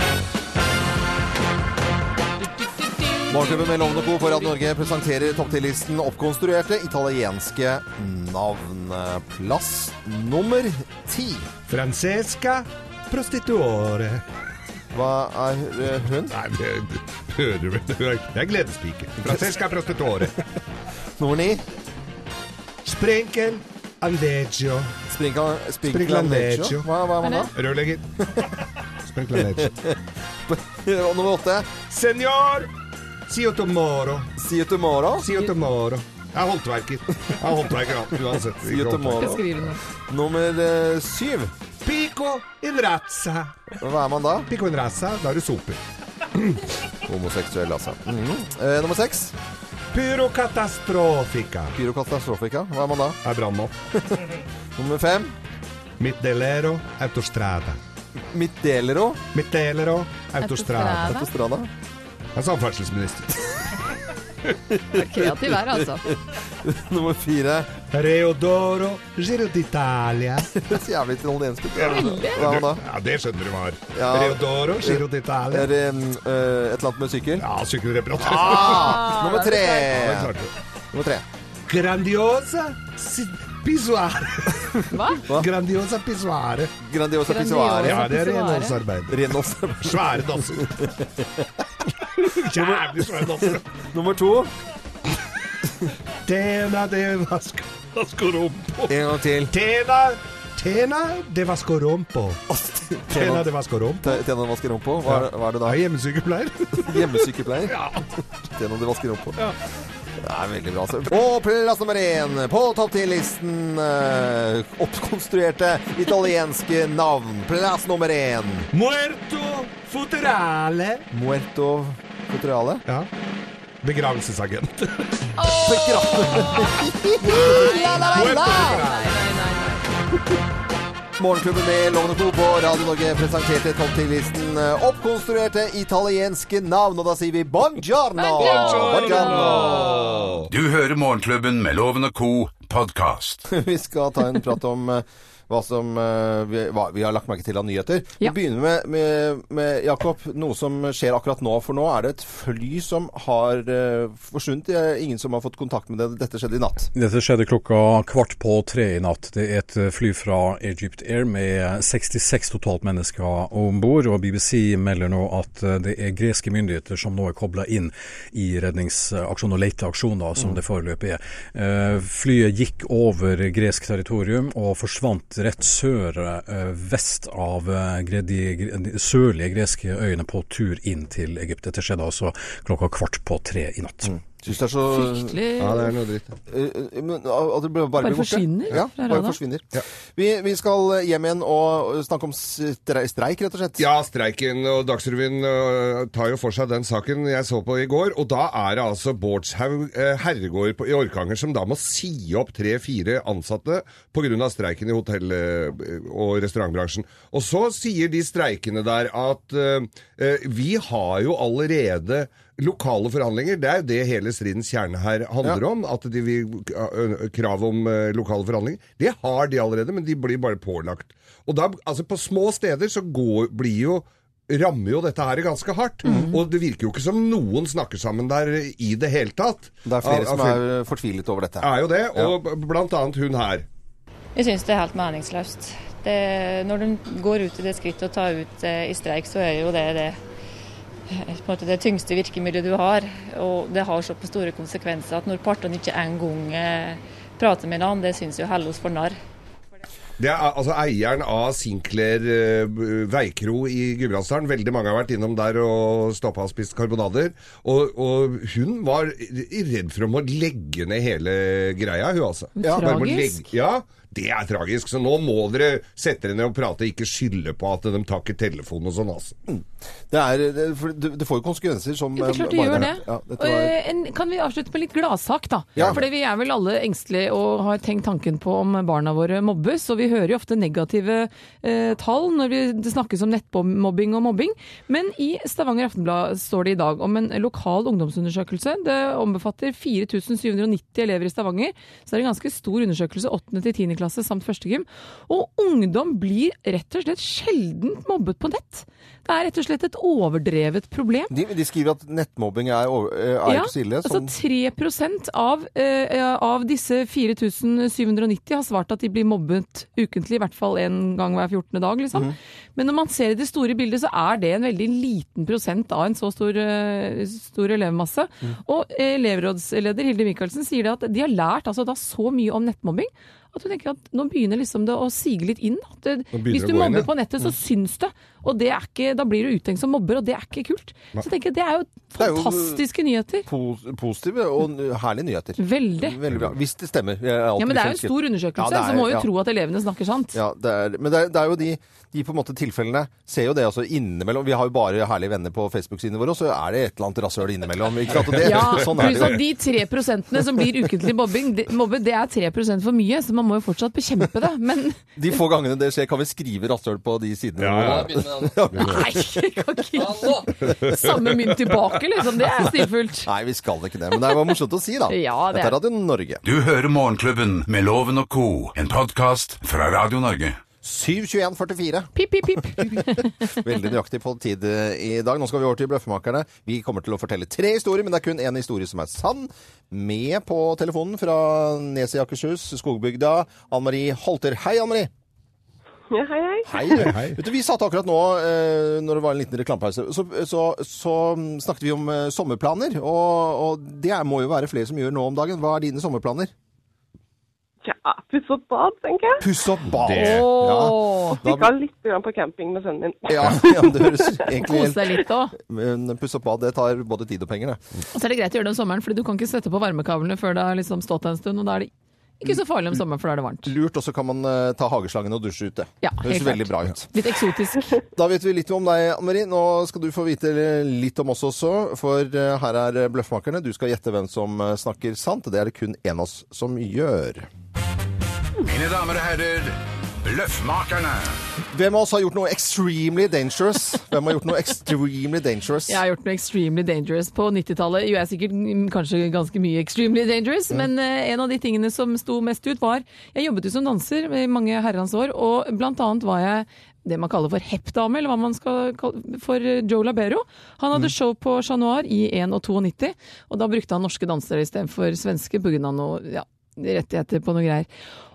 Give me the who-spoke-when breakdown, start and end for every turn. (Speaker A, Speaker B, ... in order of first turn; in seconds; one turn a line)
Speaker A: 3.3-11.5
Speaker B: 11.7-14.2
Speaker A: 14.9-16.3
Speaker B: 16.3-20.4
Speaker A: 19.2-19.5
Speaker A: 21.2-21.6
Speaker B: 22.8-25.0
Speaker A: 25.1-27.5
Speaker B: 25.8-26.9
Speaker C: 27.2-27.5
Speaker B: 27.5-28.0
Speaker B: 29.1-29.8
Speaker A: 29.6-31.7
Speaker B: 31.9-32.7
Speaker B: 33.3-34.3
Speaker A: 34.4-35.3
Speaker B: 35.2-39.4
Speaker A: 38.6-39.5
Speaker C: 39.2-39.8
Speaker A: 40.1-41.5
Speaker B: 41.8-43.6
Speaker A: 43.8-44.5
Speaker B: 44.5-45.8
Speaker B: 46.3-46.6
Speaker A: 47.0-49.3
Speaker B: 49.9-51.7
Speaker A: 51.7-53.2
Speaker B: 53.2-53.7
Speaker A: 53.9-55.3
Speaker B: 56.0-57.8
Speaker A: 58.3-59.2
Speaker B: 59.3-61.2
Speaker C: 60.4-61.3
Speaker A: 61.0-61.7
Speaker B: 62.3-63.8
Speaker A: 64.7-67.7
Speaker C: 64.9-66.0
Speaker B: 67.9-70.6
Speaker A: 70.5-72.8
Speaker B: 71.7-75.7
Speaker C: 71.8-72.4
Speaker A: 73.9-77.4
Speaker B: 77.4-79.3
Speaker A: 78.2-80.3
Speaker C: 78.4-79.9
Speaker B: 79.9-80.5
Speaker A: 80.9-81.2
Speaker B: 81.7-86.7
Speaker C: 84.9-85.2
Speaker A: 85.2-85.5
Speaker A: 86.8-88.1
Speaker C: 87.2-88.8
Speaker B: 87.8-89.2
Speaker A: 89.1-91.5
Speaker B: 89.8-90.9
Speaker B: 92.1-93.8
Speaker A: 92.5-94.5
Speaker B: 96.2-99.0
Speaker A: 98.9-99.5
Speaker B: 99.5-102.4
Speaker A: 102.5-103.5
Speaker B: 103.1-104.2
Speaker A: 104.0-105.8
Speaker B: 105.0-108.1
Speaker A: 106.7-107.8
Speaker A: 108.4-109.5
Speaker A: 110.2-118.7
Speaker B: 118.7-121.0
Speaker A: 121.1-122.8
Speaker B: 123.8-125.1
Speaker C: 125.4-126.6
Speaker A: 125.5-128.9
Speaker B: 126.3-126.7
Speaker C: 127.2-129.8
Speaker B: 127.4-129.1
Speaker A: 131.2-140.1
Speaker C: 138.2-140.2
Speaker B: 138.4-140.5
Speaker D: 140.5-143.4
Speaker A: 143.5-156.9
Speaker E: 156.9-184.2
Speaker A: 184.1-185.4
Speaker C: 184.9-185.9
Speaker B: 185.6-186.3
Speaker A: 186.5-193.8
Speaker C: 188.0-189.4
Speaker B: 193.8-230.6
Speaker A: 226.0-226.3
Speaker A: 229.8-232.3
Speaker B: 231.6-233.6
Speaker F: 234.3-240.2
Speaker F: 241.1-249.2
Speaker B: 250.2-269.4
Speaker C: 262.6-263.4
Speaker A: 262.6-263.2
Speaker A: 269.5-273.8
Speaker C: 272.2-301.3
Speaker A: 301.3-304.3
Speaker C: 303.4-333.4
Speaker B: 326.3-327.1
Speaker A: 332.2-332.8
Speaker A: 333.4-339.3
Speaker C: 335.6-336.2
Speaker C: 337.6-340.4
Speaker A: 340.3-349.4
Speaker C: 348.4-355.0
Speaker B: 348.6-349.2
Speaker A: 355.1-360.0
Speaker B: 357.6-359.0
Speaker C: 358.8-363.3
Speaker B: 360.6-361.6
Speaker A: 363.2-366.4
Speaker C: 365.1-365.8
Speaker D: 366.4-370.6
Speaker A: 370.8-372.1
Speaker C: 372.1-373.5
Speaker A: 372.6-385.1
Speaker G: 386.1-387.0
Speaker A: 386.6-396.5
Speaker B: 386.9-387.4
Speaker G: 397.8-399.5
Speaker A: 399.4-401.7
Speaker B: 400.0-400.5
Speaker C: 400.1-401.4
Speaker G: 401.4-404.5
Speaker A: 403.3-407.8
Speaker C: 404.6-405.5
Speaker C: 408.1-411.9
Speaker C: 412.4-413.7
Speaker A: 413.6-417.1
Speaker C: 416.0-417.9
Speaker A: 418.1-427.5
Speaker D: 428.6-431.4
Speaker A: 431.7-436.0
Speaker C: 435.9-457.9